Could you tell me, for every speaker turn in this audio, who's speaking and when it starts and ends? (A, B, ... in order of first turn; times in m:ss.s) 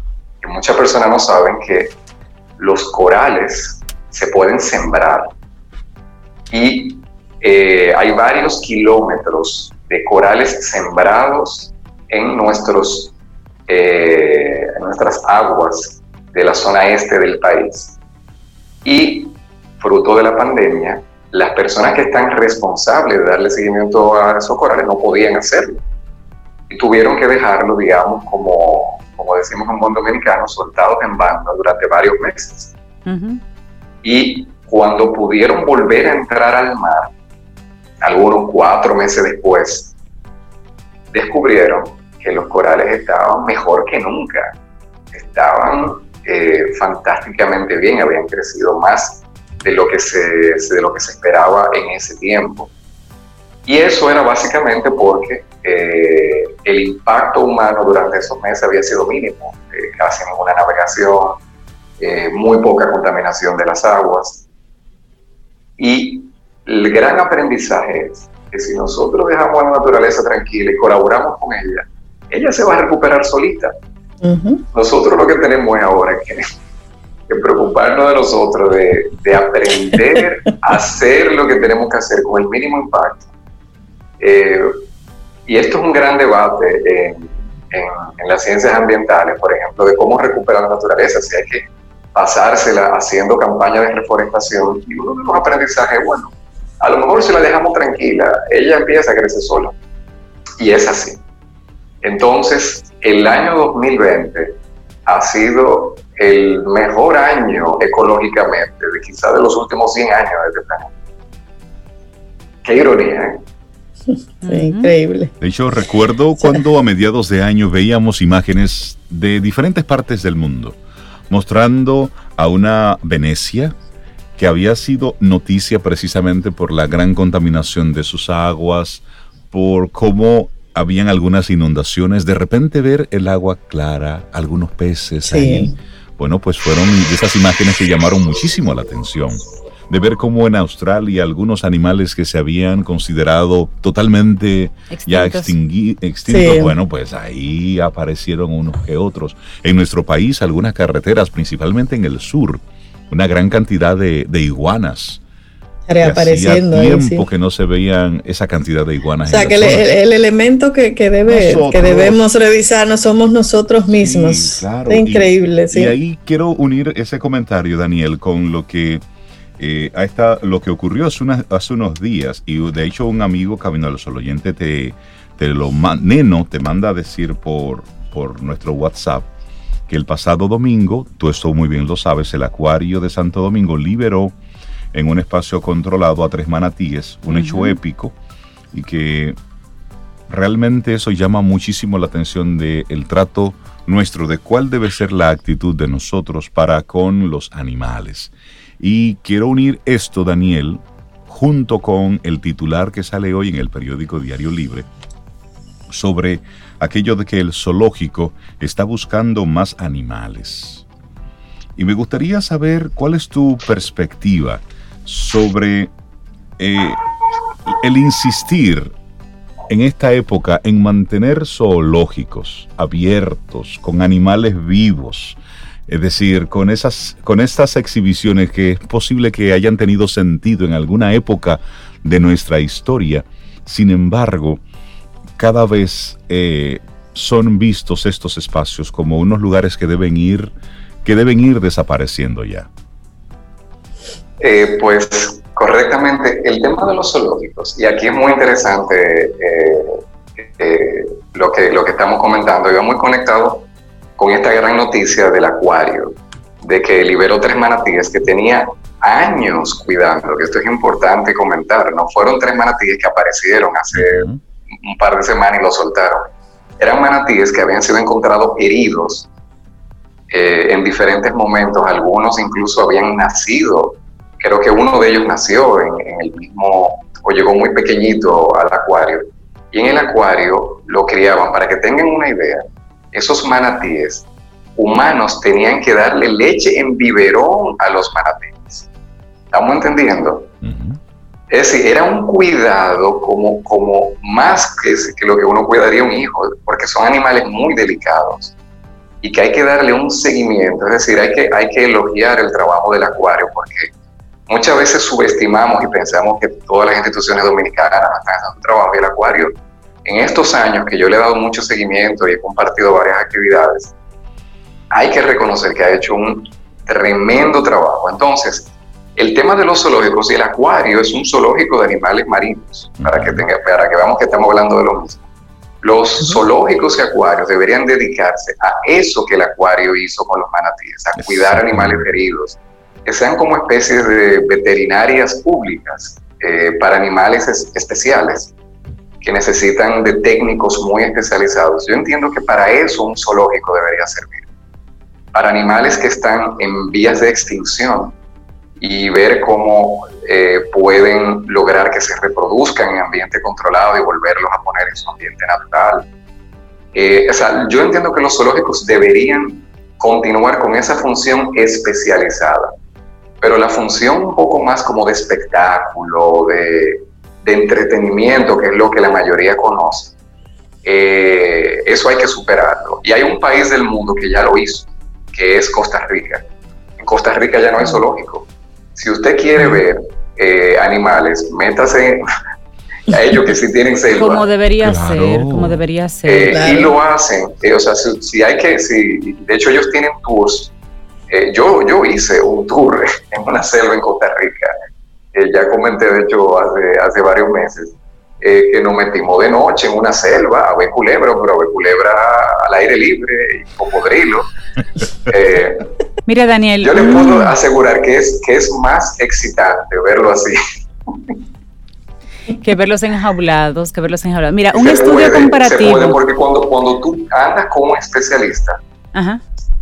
0:00.4-0:02.0 A
0:02.6-0:05.3 A
0:06.5-0:13.1 A
0:13.7-0:18.0 A
0:18.8-0:25.8 A
0:26.7-0:32.7 A
0:33.1-0:33.4 B
0:34.0-0:37.1 A
0:38.0-0:39.9 A
0:41.1-0:44.6 A
0:45.1-0:52.7 A
0:53.7-1:01.4 A
1:02.0-1:04.4 A
1:05.8-1:13.7 A
1:14.2-1:14.6 C
1:14.7-1:16.4 A
1:17.3-1:23.3 A
1:24.2-1:24.8 A
1:25.5-1:39.8 A
1:40.6-1:41.2 A
1:42.0-1:50.9 A
1:52.6-1:53.4 A
1:54.1-1:55.3 C
1:54.4-1:54.9 B
1:55.4-2:00.8 D
2:01.3-2:03.8 D
2:04.4-2:35.2 D
2:15.2-2:15.8 C
2:24.9-2:25.6 B
2:26.3-2:26.8 C
2:35.9-2:37.3 C
2:36.0-2:39.9 D
2:39.3-2:46.0 C
2:41.3-2:42.2 D
2:44.0-2:49.0 D
2:49.6-2:59.3 D
2:59.9-3:04.4 D
3:04.9-3:08.2 D
3:07.3-3:07.8 B
3:08.7-3:09.4 D
3:10.3-3:24.9 D
3:25.9-3:30.8 D
3:31.8-3:35.9 D
3:36.6-3:37.0 D
3:37.7-3:38.9 D
3:39.7-3:54.6 D
3:55.4-4:02.7 D
4:04.4-4:13.7 A
4:14.2-4:24.3 A
4:23.9-4:24.4 D
4:24.8-4:29.3 A
4:30.3-4:48.9 A
4:49.5-4:50.5 A
4:50.6-4:51.0 D
4:51.5-4:58.5 A
4:59.2-5:03.9 A
5:04.5-5:13.9 A
5:14.9-5:25.2 A
5:23.0-5:23.5 D
5:25.8-5:38.5 A
5:31.2-5:32.1 D
5:39.2-5:44.5 A
5:45.3-5:48.2 A
5:48.8-5:56.1 A
5:56.9-6:02.8 A
6:03.4-6:10.2 A
6:10.8-6:16.4 A
6:17.0-6:22.2 A
6:23.1-6:24.4 A
6:24.1-6:26.8 B
6:24.8-6:25.8 D
6:26.3-6:30.7 A
6:26.4-6:27.0 C
6:31.3-6:34.7 A
6:35.3-6:44.5 A
6:45.2-6:45.9 A
6:46.3-6:47.5 B
6:46.8-6:51.4 A
6:52.6-6:56.2 B
6:54.7-6:58.8 A
6:59.1-6:59.4 B